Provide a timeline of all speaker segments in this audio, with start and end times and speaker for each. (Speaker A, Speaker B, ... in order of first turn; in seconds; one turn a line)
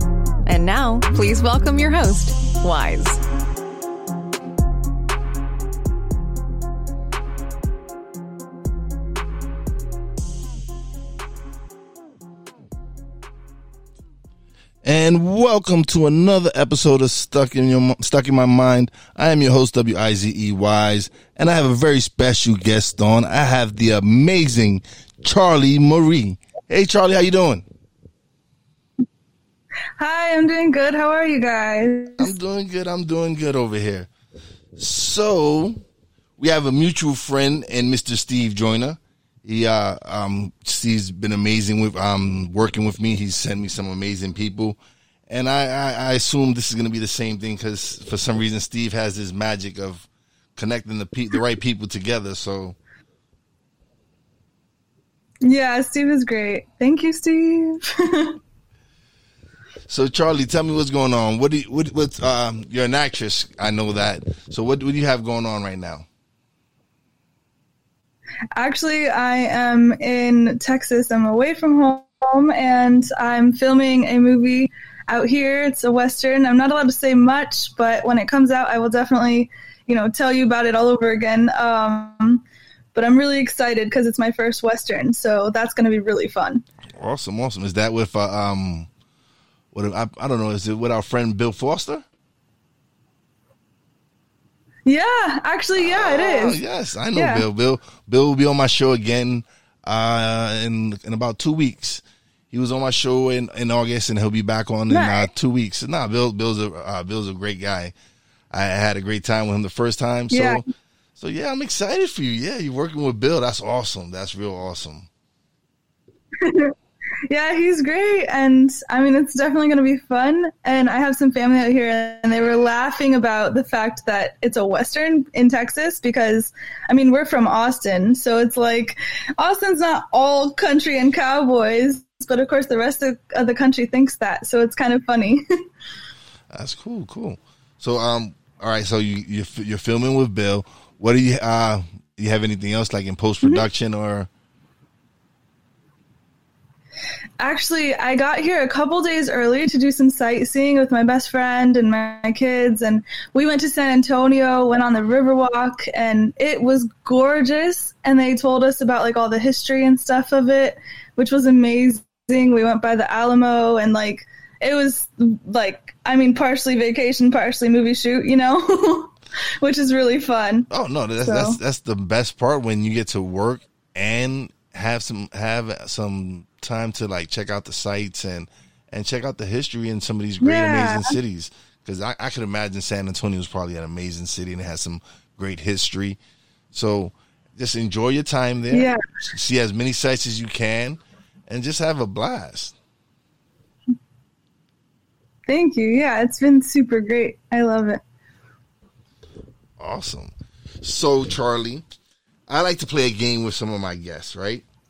Speaker A: 0.5-3.2
Speaker B: 14.8-27.6
Speaker C: 30.0-32.3
Speaker B: 32.2-34.1
Speaker B: 34.8-35.8
Speaker B: 36.4-52.8
Speaker C: 55.4-58.4
Speaker B: 59.9-66.0
Speaker C: 68.5-82.4
Speaker C: 82.9-86.6
Speaker B: 86.9-88.9
Speaker B: 89.7-92.0
Speaker C: 94.8-96.6
Speaker B: 95.9-107.9
Speaker C: 97.1-97.4
Speaker C: 104.9-105.3
Speaker B: 108.5-110.6
Speaker C: 110.3-110.6
Speaker B: 111.2-115.1
Speaker C: 116.4-116.7
Speaker C: 117.3-135.4
Speaker B: 136.5-144.3
Speaker C: 147.4-170.7
Speaker B: 170.7-186.2
Speaker C: 171.2-171.6
Speaker C: 180.4-181.2
Speaker B: 186.7-192.7
Speaker C: 188.7-189.0
Speaker C: 195.5-198.0
Speaker B: 199.8-201.8
Speaker B: 202.5-204.6